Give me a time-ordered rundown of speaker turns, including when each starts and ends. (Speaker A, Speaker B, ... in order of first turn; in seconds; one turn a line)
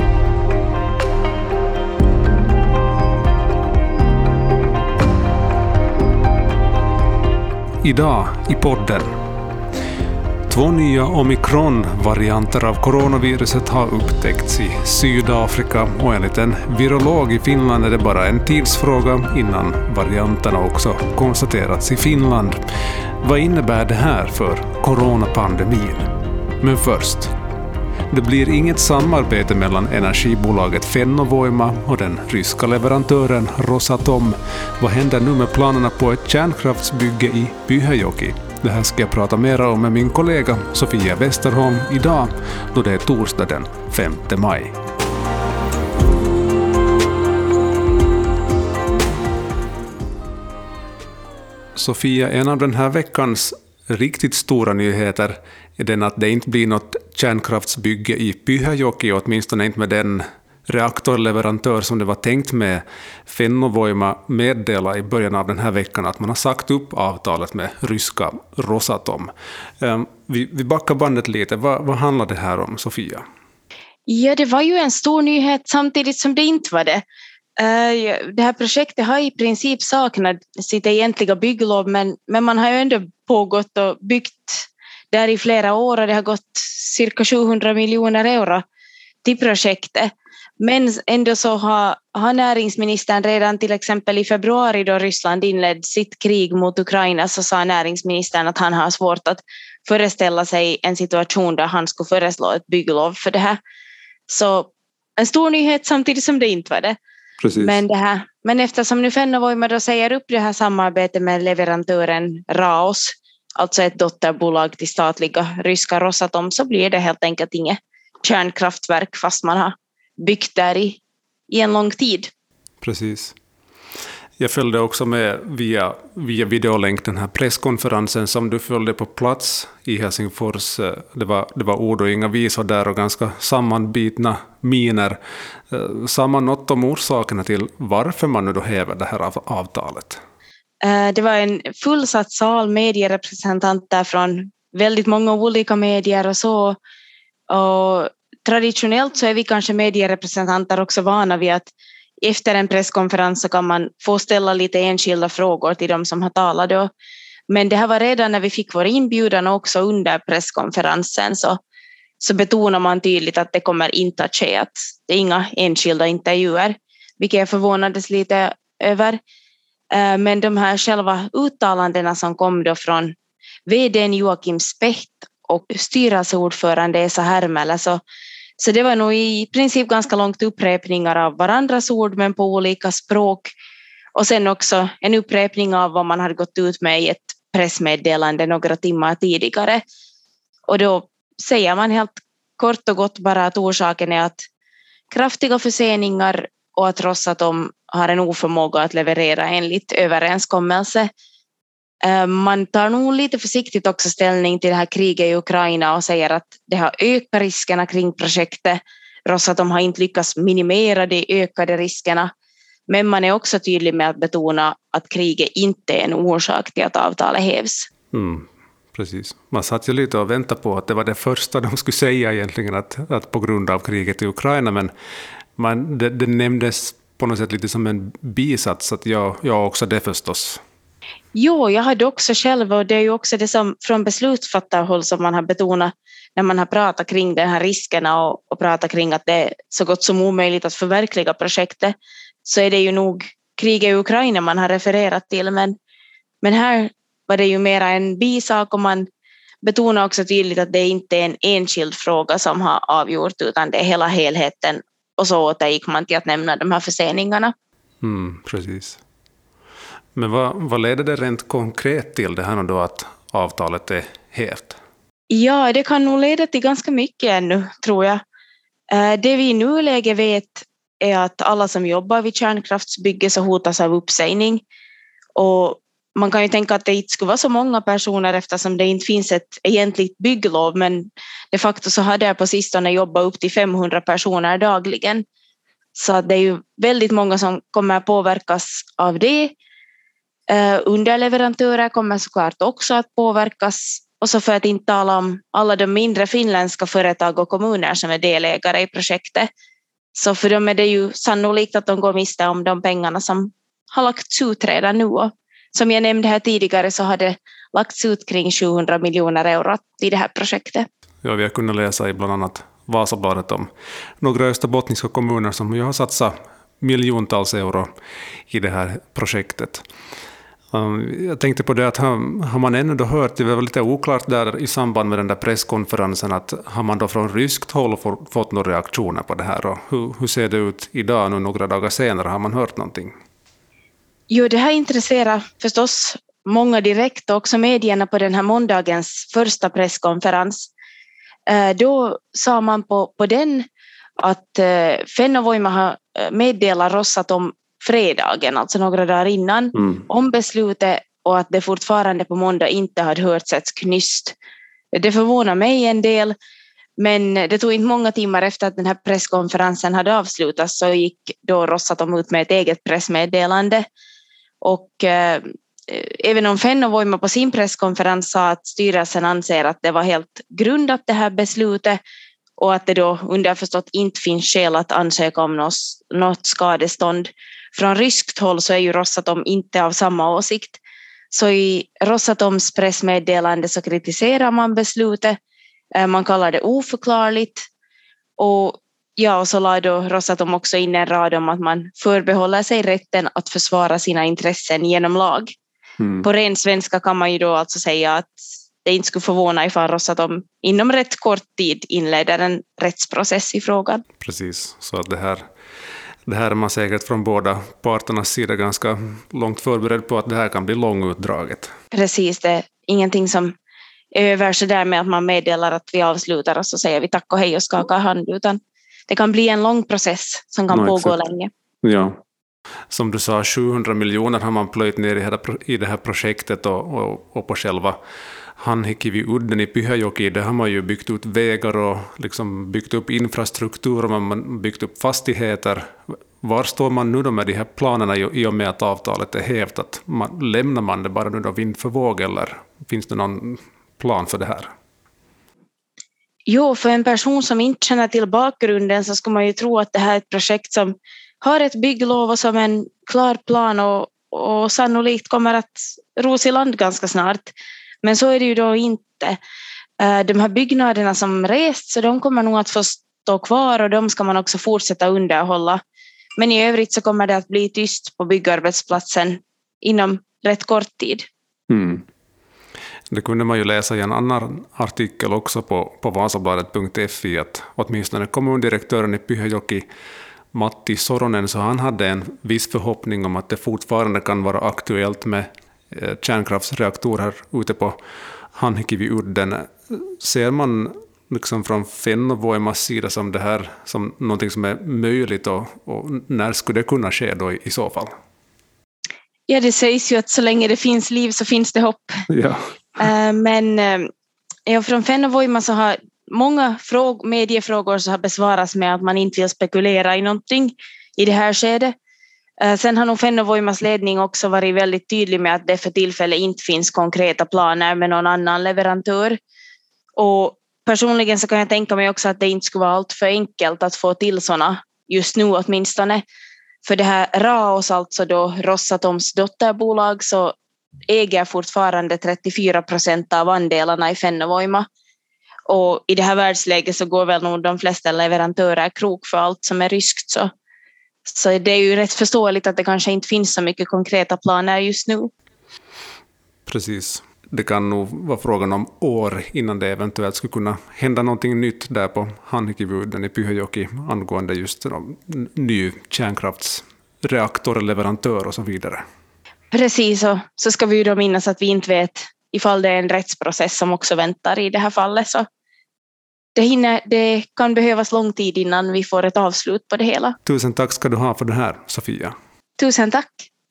Speaker A: 7.8-9.2
Speaker A: 10.5-22.6
Speaker A: 23.2-27.3
Speaker A: 28.1-44.8
Speaker A: 51.8-73.2
Speaker B: 74.1-77.0
Speaker B: 77.6-88.6
Speaker B: 89.2-103.6
Speaker B: 104.3-107.0
Speaker A: 107.4-107.8
Speaker B: 107.6-122.3
Speaker A: 122.8-123.3
Speaker A: 124.4-135.2
Speaker A: 135.7-140.2
Speaker B: 140.8-146.8
Speaker B: 147.5-151.7
Speaker B: 152.2-156.9
Speaker B: 157.5-161.6
Speaker B: 162.2-169.2
Speaker B: 169.9-173.1
Speaker B: 173.7-178.0
Speaker B: 178.6-183.5
Speaker B: 184.1-189.8
Speaker B: 190.7-194.4
Speaker B: 195.1-201.1
Speaker B: 202.0-212.3
Speaker B: 212.9-217.9
Speaker A: 218.1-224.9
Speaker A: 225.6-230.6
Speaker B: 231.3-245.8
Speaker B: 246.4-249.1
Speaker B: 249.6-257.5
Speaker A: 258.0-259.0
Speaker A: 260.1-264.8
Speaker B: 265.3-268.2
Speaker B: 268.9-274.6
Speaker B: 275.4-285.2
Speaker B: 285.9-289.6
Speaker B: 290.5-299.5
Speaker B: 300.1-310.9
Speaker A: 311.2-313.7
Speaker A: 314.2-317.9
Speaker A: 318.5-319.8
Speaker A: 320.7-333.1
Speaker B: 334.3-340.7
Speaker B: 341.5-343.6
Speaker B: 344.2-354.3
Speaker B: 354.9-356.3
Speaker B: 357.0-363.8
Speaker B: 364.6-372.0
Speaker B: 372.6-380.8
Speaker B: 381.3-385.4
Speaker B: 385.9-387.6
Speaker B: 388.4-395.5
Speaker A: 396.0-396.2
Speaker B: 396.2-404.0
Speaker A: 404.2-405.5
Speaker A: 406.2-411.7
Speaker B: 411.9-413.5
Speaker B: 414.1-421.5
Speaker A: 420.7-421.2
Speaker A: 421.8-422.2
Speaker A: 422.9-428.0
Speaker A: 428.6-444.7
Speaker B: 446.5-459.4
Speaker B: 460.0-465.8
Speaker B: 466.4-471.2
Speaker A: 471.7-472.0
Speaker A: 473.1-479.9
Speaker A: 480.5-488.0
Speaker A: 488.5-498.1
Speaker B: 499.5-502.2
Speaker A: 502.3-502.7
Speaker B: 503.0-504.1
Speaker B: 504.6-511.9
Speaker B: 512.6-519.4
Speaker B: 520.1-526.2
Speaker B: 526.8-530.5
Speaker B: 531.1-534.9
Speaker B: 535.7-540.5
Speaker B: 541.2-545.3
Speaker A: 546.6-559.0
Speaker B: 559.7-565.5
Speaker B: 566.5-570.3
Speaker A: 570.4-572.3
Speaker B: 572.8-573.5